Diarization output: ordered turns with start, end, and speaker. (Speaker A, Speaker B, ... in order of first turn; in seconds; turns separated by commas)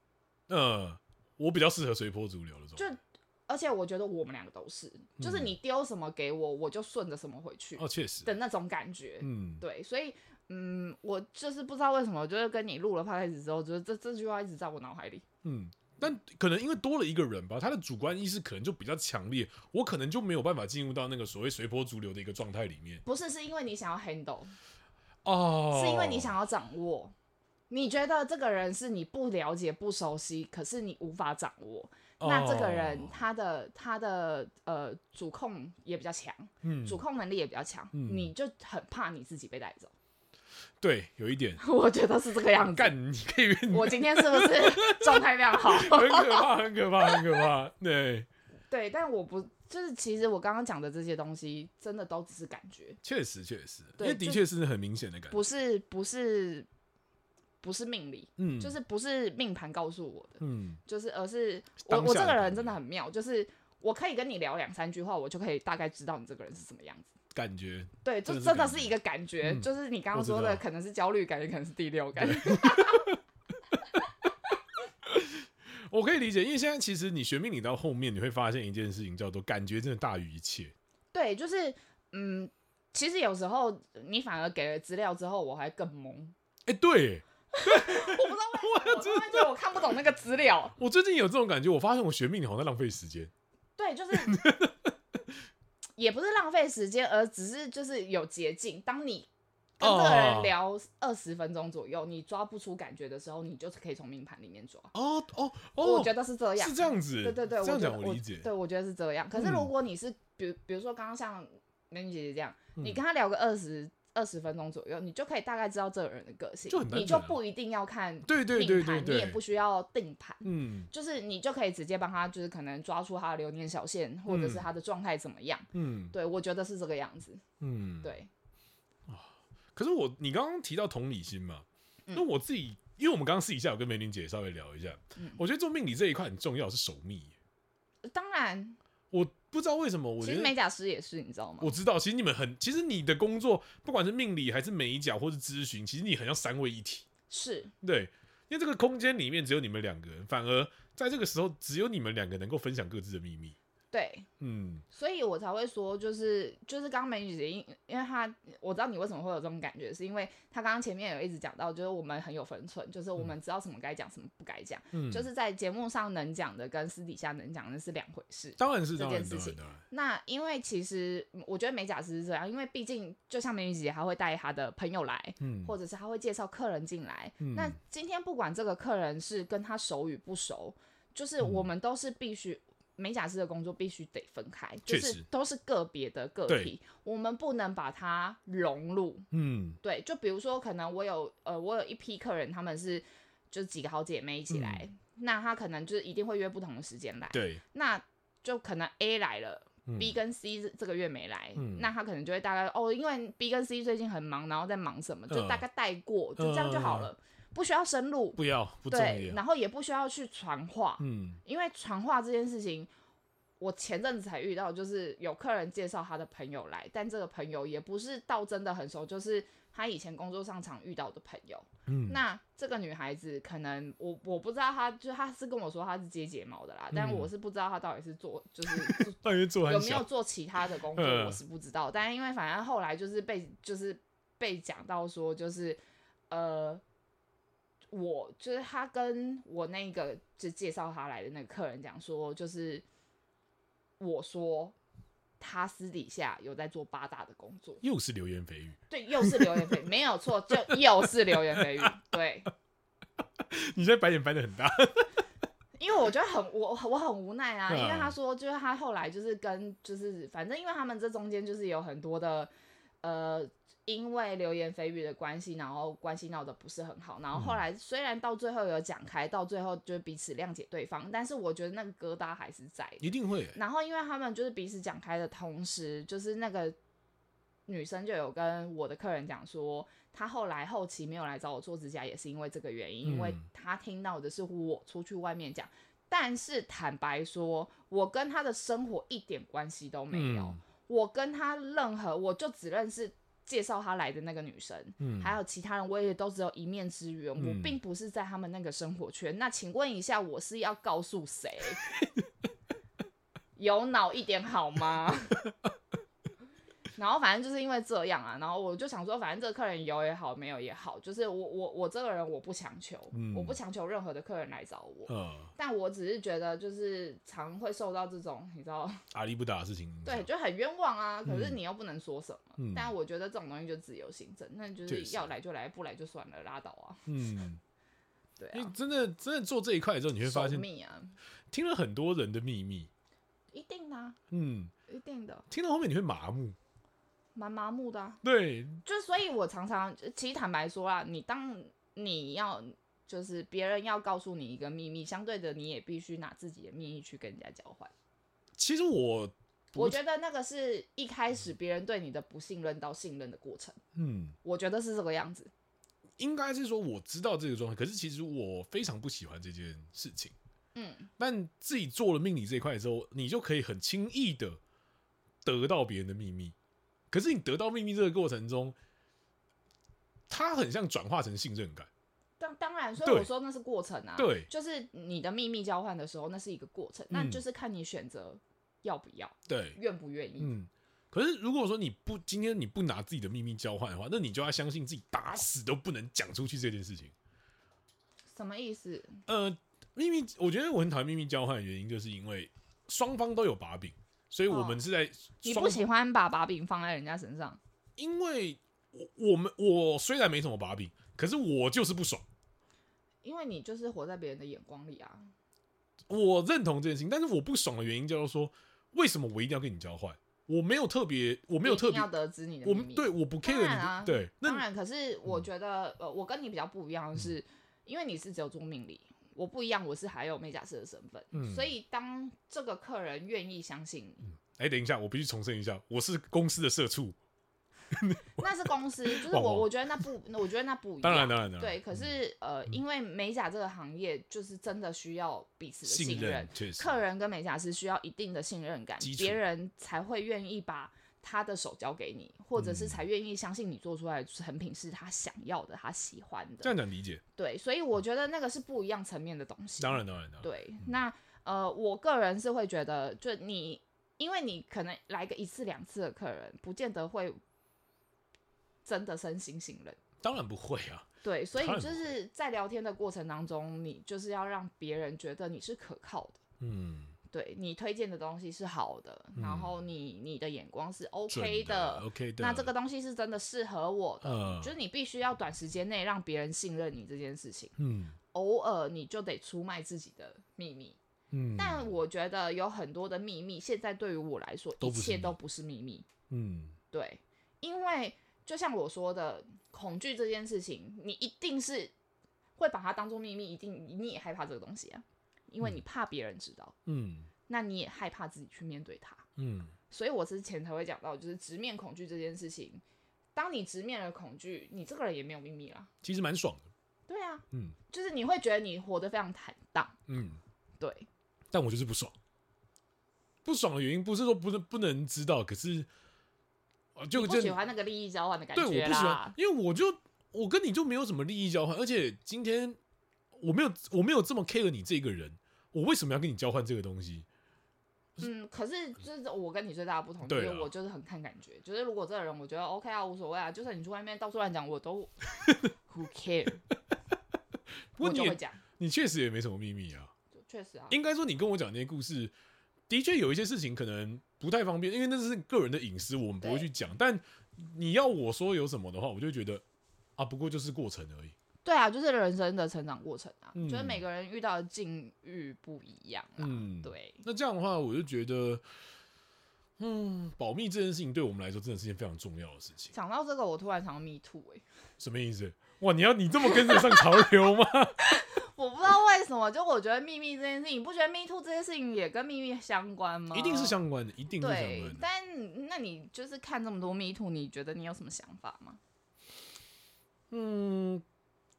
Speaker A: 0.5-2.9, Speaker B: 2.8-15.2, Speaker A: 5.2-5.5, Speaker A: 7.8-8.3, Speaker A: 9.2-9.6, Speaker A: 15.4-23.0, Speaker B: 23.0-24.5, Speaker A: 25.2-26.3, Speaker B: 25.7-27.1, Speaker B: 27.7-39.9, Speaker A: 32.2-33.2, Speaker A: 36.6-37.0, Speaker A: 37.9-38.3, Speaker A: 40.8-41.6, Speaker B: 41.6-42.9, Speaker A: 42.7-48.3, Speaker B: 43.7-47.4, Speaker B: 48.7-53.0, Speaker A: 53.0-55.4, Speaker B: 54.0-54.4, Speaker B: 55.3-56.7, Speaker B: 57.6-67.1, Speaker A: 58.4-58.7, Speaker A: 60.4-60.8, Speaker A: 61.9-62.7, Speaker A: 67.3-70.6, Speaker B: 68.0-73.1, Speaker A: 72.2-73.2, Speaker A: 75.0-80.7, Speaker B: 81.1-86.3, Speaker A: 86.7-89.5, Speaker B: 87.5-90.8, Speaker A: 90.8-93.3, Speaker B: 93.8-94.5, Speaker A: 94.1-94.9, Speaker B: 96.0-99.3, Speaker B: 99.8-104.9, Speaker A: 99.8-100.5, Speaker A: 104.9-108.5, Speaker B: 105.8-127.4, Speaker A: 109.3-109.7, Speaker A: 116.7-117.4, Speaker A: 118.2-119.4, Speaker A: 120.4-120.9, Speaker A: 124.3-124.7, Speaker A: 125.7-126.1, Speaker A: 127.6-128.1, Speaker B: 128.0-128.3, Speaker A: 129.1-137.3, Speaker B: 138.0-138.8, Speaker A: 139.1-140.5, Speaker B: 140.2-141.7, Speaker A: 141.6-147.1, Speaker B: 147.3-147.7, Speaker A: 147.8-153.6, Speaker B: 153.9-154.3, Speaker A: 154.4-154.8, Speaker B: 154.9-189.3, Speaker A: 164.9-165.3, Speaker A: 168.6-169.8, Speaker A: 175.4-175.7, Speaker A: 177.4-177.8, Speaker A: 184.9-185.2, Speaker A: 186.5-186.7, Speaker A: 189.3-189.8, Speaker B: 189.8-212.9, Speaker A: 194.5-194.8, Speaker A: 197.3-197.6, Speaker A: 199.9-200.2, Speaker A: 201.6-201.9, Speaker A: 205.3-205.6, Speaker A: 206.4-207.1, Speaker A: 208.3-209.4, Speaker A: 211.0-211.4, Speaker B: 213.6-235.8, Speaker A: 221.9-222.2, Speaker A: 226.9-227.3, Speaker A: 228.7-230.1, Speaker A: 230.9-231.4, Speaker B: 236.3-236.8, Speaker B: 237.9-242.8, Speaker B: 244.0-244.8, Speaker B: 245.4-247.8, Speaker A: 247.8-249.8, Speaker B: 248.9-252.5, Speaker A: 250.5-250.8, Speaker A: 251.3-251.9, Speaker A: 253.4-255.1, Speaker B: 255.8-262.5, Speaker A: 257.7-258.1, Speaker B: 263.0-276.8, Speaker A: 267.3-267.6, Speaker A: 273.0-273.6, Speaker B: 277.7-301.8, Speaker A: 283.0-283.4, Speaker A: 290.1-290.6, Speaker A: 295.0-295.4, Speaker A: 297.4-297.8, Speaker B: 303.6-305.5, Speaker B: 306.9-319.0, Speaker A: 313.1-313.6, Speaker A: 315.1-315.5, Speaker A: 319.1-320.3, Speaker B: 320.0-327.1, Speaker A: 321.2-321.6, Speaker A: 322.6-322.9, Speaker A: 324.9-325.3, Speaker A: 327.1-327.6, Speaker B: 328.4-328.7, Speaker A: 328.5-330.6, Speaker B: 330.2-331.2, Speaker A: 331.5-332.9, Speaker B: 333.5-334.2, Speaker A: 334.3-334.7, Speaker B: 334.9-335.4, Speaker A: 335.5-336.6, Speaker B: 337.3-338.2, Speaker A: 338.2-338.8, Speaker B: 338.8-347.9, Speaker A: 348.6-350.0, Speaker B: 349.7-353.8, Speaker A: 353.9-354.4, Speaker B: 354.4-355.5, Speaker A: 356.2-360.3, Speaker B: 360.7-361.1, Speaker A: 361.2-364.6, Speaker A: 365.4-366.5, Speaker A: 367.1-368.8, Speaker A: 370.3-371.9, Speaker B: 372.4-380.5, Speaker A: 373.0-373.3, Speaker A: 374.1-374.5, Speaker A: 377.1-377.4, Speaker A: 379.5-379.8, Speaker A: 380.4-387.1, Speaker B: 388.3-389.2, Speaker A: 389.2-395.9, Speaker B: 394.5-394.8, Speaker B: 395.4-397.6, Speaker A: 398.0-402.2, Speaker B: 403.2-405.3, Speaker A: 406.1-412.1, Speaker B: 411.6-424.2, Speaker A: 412.6-414.6, Speaker A: 421.3-421.7, Speaker A: 424.4-427.1, Speaker A: 427.9-428.4, Speaker B: 428.4-446.7, Speaker A: 429.0-429.7, Speaker A: 431.0-432.0, Speaker A: 435.8-437.0, Speaker A: 439.0-439.4, Speaker A: 442.6-443.0, Speaker A: 446.6-447.2, Speaker B: 447.4-457.4, Speaker A: 449.8-450.5, Speaker B: 458.8-460.0, Speaker A: 460.2-462.1, Speaker B: 461.2-466.4, Speaker A: 466.6-467.1, Speaker B: 467.3-477.7, Speaker A: 469.4-469.7, Speaker A: 471.3-472.7, Speaker A: 474.2-474.7, Speaker A: 477.8-478.2, Speaker B: 478.3-481.0, Speaker A: 481.3-481.9, Speaker B: 481.6-486.1, Speaker A: 484.8-485.3, Speaker A: 486.3-486.8, Speaker B: 486.9-491.9, Speaker B: 492.6-496.7, Speaker A: 496.9-497.3, Speaker B: 497.5-499.2, Speaker A: 499.4-499.7, Speaker B: 499.9-502.8, Speaker B: 503.3-505.9, Speaker A: 506.0-506.7, Speaker B: 507.1-510.0, Speaker A: 510.1-510.4, Speaker B: 510.8-511.1, Speaker A: 511.5-512.1, Speaker A: 513.4-515.9, Speaker A: 517.0-517.6, Speaker B: 517.1-519.4, Speaker A: 518.5-522.8, Speaker A: 523.4-527.2, Speaker B: 528.2-536.6, Speaker A: 530.2-530.7, Speaker A: 538.0-540.1, Speaker B: 538.0-538.6, Speaker B: 540.3-541.0, Speaker A: 540.9-542.3, Speaker A: 542.9-549.6, Speaker B: 546.4-546.7, Speaker A: 550.2-551.3, Speaker B: 551.6-557.2, Speaker A: 553.5-554.0, Speaker A: 556.4-558.6, Speaker A: 559.8-562.9, Speaker B: 562.9-564.6, Speaker A: 565.0-568.0, Speaker B: 568.0-573.8, Speaker A: 573.3-575.0, Speaker B: 574.4-578.8, Speaker A: 580.3-581.0